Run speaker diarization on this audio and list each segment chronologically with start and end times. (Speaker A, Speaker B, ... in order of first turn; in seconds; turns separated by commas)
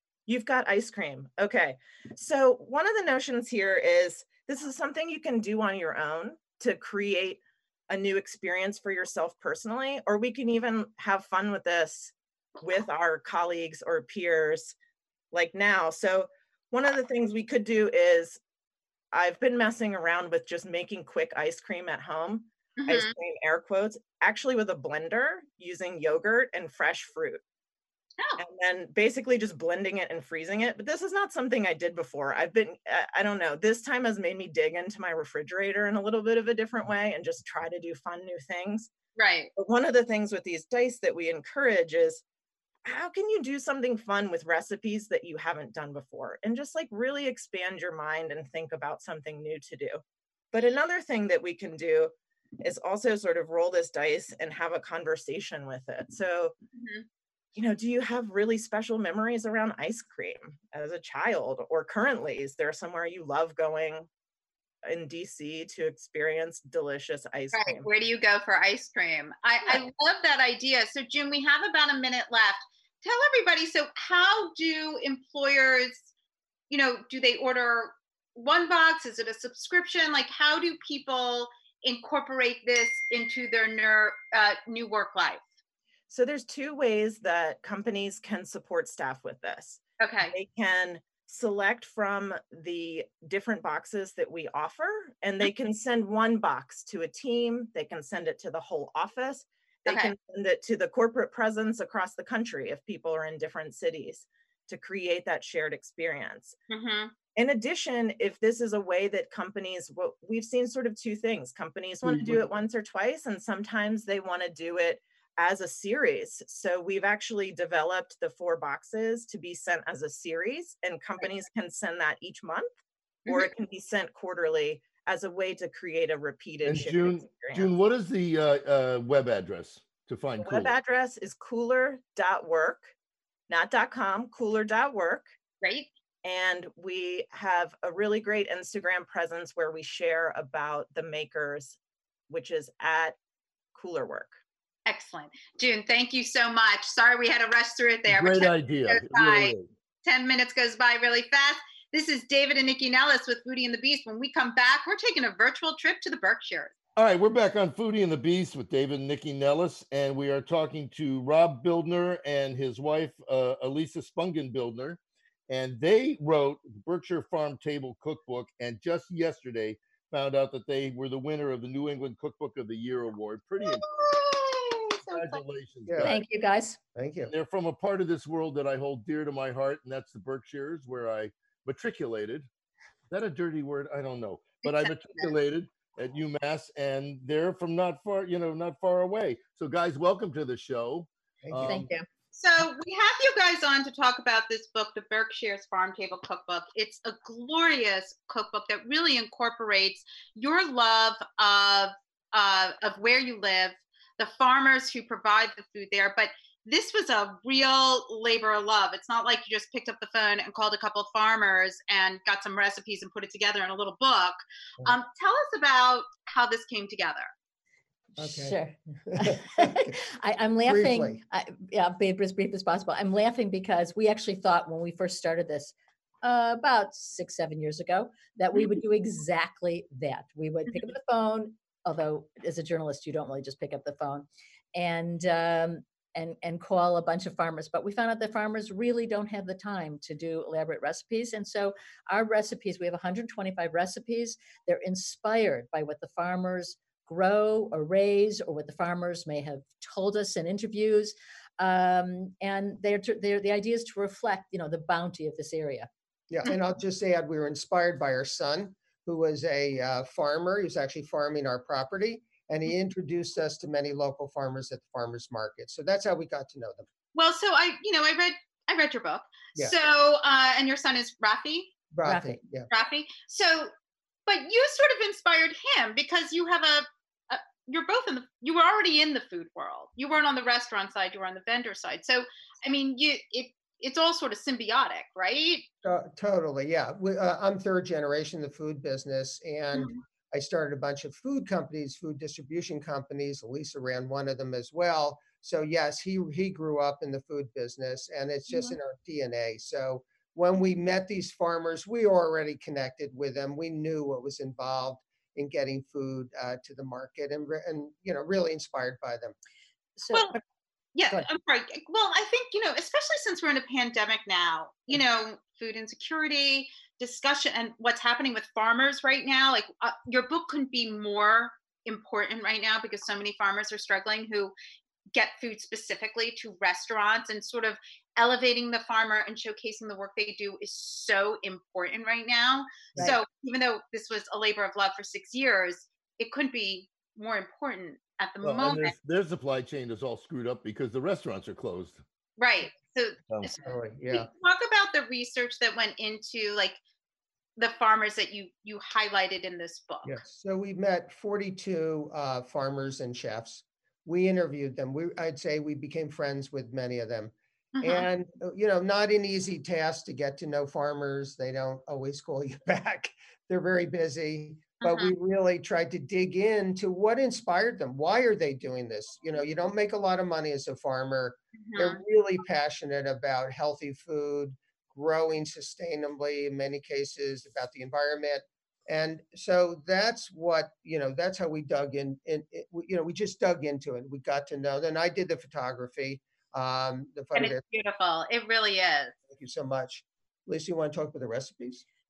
Speaker A: 0.3-14.8, Speaker A: 15.3-18.4, Speaker A: 19.1-27.4, Speaker B: 22.8-23.1, Speaker A: 28.4-38.9, Speaker B: 39.1-39.5, Speaker A: 39.5-42.2, Speaker A: 42.8-50.0, Speaker A: 50.5-56.5, Speaker B: 56.7-57.0, Speaker A: 57.5-64.1, Speaker A: 64.8-67.9, Speaker B: 67.5-76.1, Speaker B: 76.7-85.4, Speaker A: 86.1-106.5, Speaker B: 90.0-90.3, Speaker B: 99.8-100.1, Speaker B: 106.7-107.1, Speaker A: 107.3-122.7, Speaker C: 112.0-112.5, Speaker B: 123.2-123.5, Speaker A: 123.3-127.7, Speaker C: 126.6-130.8, Speaker A: 130.4-132.9, Speaker A: 133.5-135.3, Speaker B: 135.6-135.9, Speaker A: 136.2-141.8, Speaker A: 142.3-143.2, Speaker A: 143.7-144.4, Speaker B: 144.8-156.7, Speaker C: 148.1-149.7, Speaker C: 156.9-173.8, Speaker B: 173.6-175.4, Speaker C: 175.1-176.2, Speaker D: 175.9-176.2, Speaker E: 176.0-176.8, Speaker D: 176.9-177.3, Speaker C: 177.3-182.5, Speaker C: 183.1-191.8, Speaker B: 184.6-185.3, Speaker D: 191.4-191.9, Speaker E: 191.6-192.1, Speaker B: 192.3-217.3, Speaker E: 218.2-255.9, Speaker D: 218.2-219.9, Speaker D: 220.7-221.2, Speaker D: 256.3-266.9, Speaker B: 267.1-271.7, Speaker D: 271.9-272.7, Speaker E: 272.0-272.4, Speaker B: 272.7-273.7, Speaker B: 274.3-285.6, Speaker D: 285.8-309.4, Speaker B: 289.7-290.0, Speaker B: 298.5-298.8, Speaker E: 310.0-310.4, Speaker B: 310.1-310.4, Speaker B: 310.9-324.5, Speaker B: 325.1-338.9, Speaker C: 338.4-342.0, Speaker B: 342.4-346.8, Speaker D: 343.6-344.3, Speaker B: 347.6-350.2, Speaker D: 350.0-387.6, Speaker B: 357.8-358.1, Speaker B: 364.8-365.1, Speaker B: 371.6-372.0, Speaker B: 387.3-389.1, Speaker D: 389.3-391.8